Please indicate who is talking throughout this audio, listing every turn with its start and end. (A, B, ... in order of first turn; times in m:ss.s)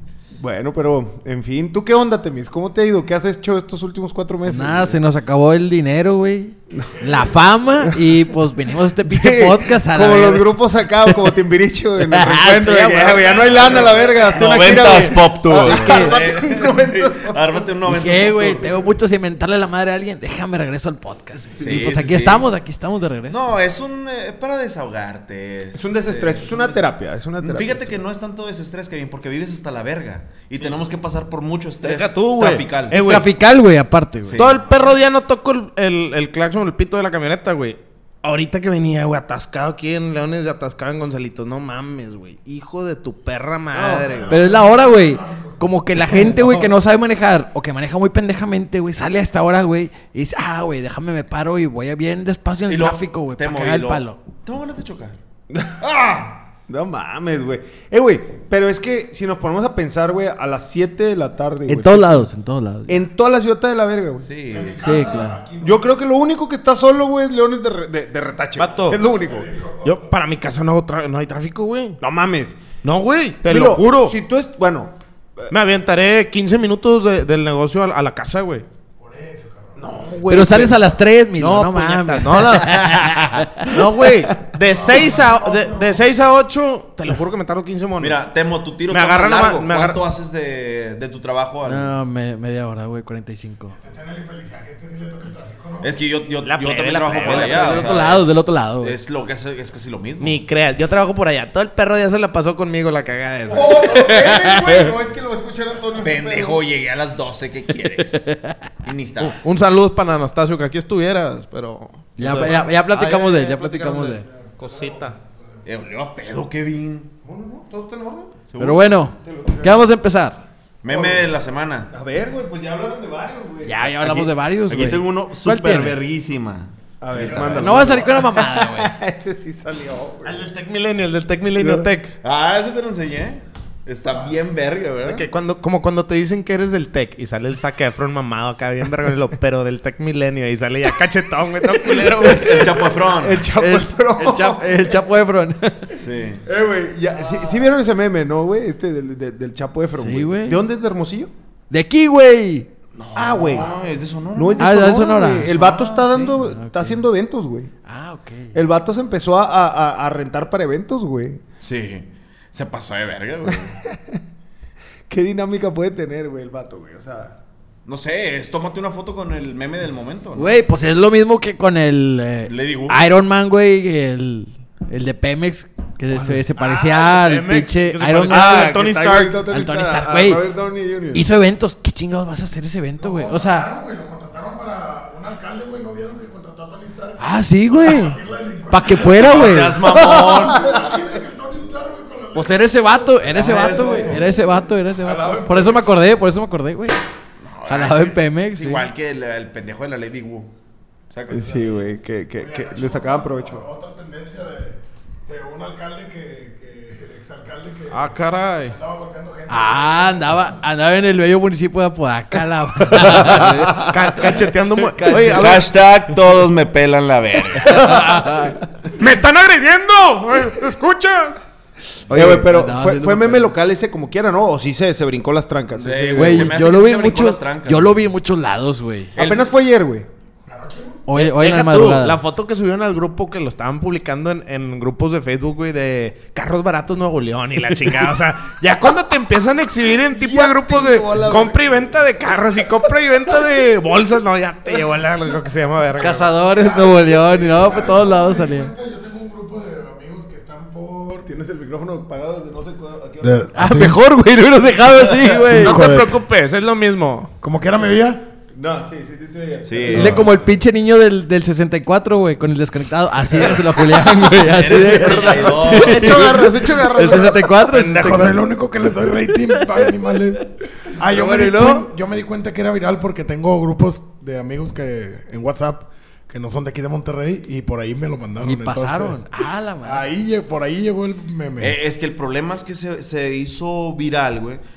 0:00.3-0:05.0 A
0:04.4-0:11.3 B
0:06.7-0:07.0 A
0:09.0-0:17.6 A
0:12.0-0:13.4 B
0:13.1-0:18.8 C
0:13.8-0:14.1 D
0:14.7-0:16.2 B
0:17.8-0:23.4 B
0:21.6-0:22.5 C
0:23.3-0:26.9 C
0:25.7-0:28.0 A
0:27.4-0:33.0 C
0:31.8-0:33.3 E
0:32.9-0:34.4 B
0:34.2-0:34.7 C
0:34.4-0:44.4 E
0:43.8-0:45.6 D
0:44.3-0:54.2 B
0:52.7-0:55.2 C
0:55.5-1:02.3 A
1:01.7-1:03.0 B
1:02.9-1:04.3 A
1:04.2-1:05.1 C
1:04.5-1:05.9 D
1:04.8-1:05.4 B
1:05.6-1:09.5 A
1:08.6-1:09.0 E
1:08.9-1:10.1 D
1:09.8-1:12.0 E
1:12.0-1:12.6 A
1:12.8-1:14.2 E
1:13.4-1:15.5 A
1:15.5-1:18.6 E
1:19.0-1:20.0 D
1:19.8-1:20.8 A
1:20.3-1:23.8 B
1:21.4-1:28.2 E
1:24.6-1:26.1 D
1:28.0-1:31.9 C
1:28.9-1:30.0 E
1:31.6-1:33.8 B
1:33.8-1:35.9 D
1:35.8-1:40.4 C
1:36.4-1:38.0 E
1:37.2-1:39.0 B
1:40.2-1:44.2 E
1:43.4-1:46.5 A
1:44.1-1:44.9 B
1:46.0-1:48.3 C
1:48.0-1:48.6 B
1:48.8-1:49.4 C
1:49.2-1:55.2 E
1:52.2-1:54.2 B
1:54.3-1:55.6 D
1:55.6-1:57.1 C
1:57.2-1:58.3 A
1:58.5-1:59.0 C
1:58.6-2:00.4 B
1:59.2-1:59.9 A
2:00.8-2:01.9 C
2:00.8-2:01.4 A
2:01.9-2:04.3 A
2:03.6-2:06.0 B
2:04.7-2:07.9 C
2:07.0-2:10.4 A
2:07.4-2:08.9 B
2:10.2-2:12.1 E
2:11.6-2:11.9 A
2:12.2-2:15.3 C
2:15.0-2:22.6 E
2:21.8-2:22.6 B
2:22.3-2:23.4 C
2:22.4-2:25.0 A
2:23.5-2:25.9 B
2:25.9-2:26.4 C
2:26.4-2:31.3 A
2:29.9-2:30.6 B
2:31.7-2:32.7 B
2:32.9-2:34.7 C
2:33.1-2:33.7 A
2:34.3-2:37.7 A
2:34.6-2:37.0 B
2:37.8-2:38.5 B
2:38.5-2:41.4 A
2:41.6-2:43.8 C
2:43.5-2:44.2 A
2:45.1-2:47.4 A
2:47.8-2:50.6 C
2:50.4-2:58.8 B
2:52.4-2:53.0 C
2:56.5-2:59.4 E
2:58.3-3:01.3 A
2:59.5-3:00.4 B
3:01.1-3:03.7 B
3:03.0-3:16.0 D
3:07.2-3:08.2 B
3:08.7-3:10.5 B
3:09.0-3:10.8 C
3:12.3-3:17.0 B
3:13.3-3:14.2 C
3:17.4-3:20.5 C
3:17.7-3:18.8 B
3:21.1-3:21.8 C
3:21.3-3:23.6 A
3:22.4-3:30.6 D
3:27.9-3:28.8 E
3:29.5-3:35.5 B
3:33.3-3:35.7 E
3:35.1-3:37.9 C
3:37.6-3:38.6 B
3:37.7-3:38.4 E
3:38.9-3:41.4 E
3:42.1-3:43.5 B
3:42.1-3:46.6 A
3:45.7-3:48.1 C
3:46.2-3:49.1 B
3:49.1-3:49.5 C
3:49.2-3:50.1 A
3:50.5-3:51.0 D
3:51.1-3:52.2 B
3:51.2-4:06.3 E
4:00.0-4:02.0 A
4:06.0-4:08.7 B
4:06.4-4:11.3 D
4:11.2-4:13.5 A
4:13.2-4:14.0 D
4:13.5-4:15.9 B
4:15.4-4:17.3 E
4:15.5-4:16.2 D
4:17.4-4:18.2 D
4:18.5-4:20.5 A
4:19.6-4:20.3 C
4:19.9-4:28.4 B
4:24.3-4:26.4 C
4:25.7-4:27.5 E
4:27.7-4:39.2 D
4:29.5-4:29.9 B
4:31.1-4:31.9 B
4:38.4-4:40.0 B
4:39.8-4:41.8 D
4:41.6-4:44.6 C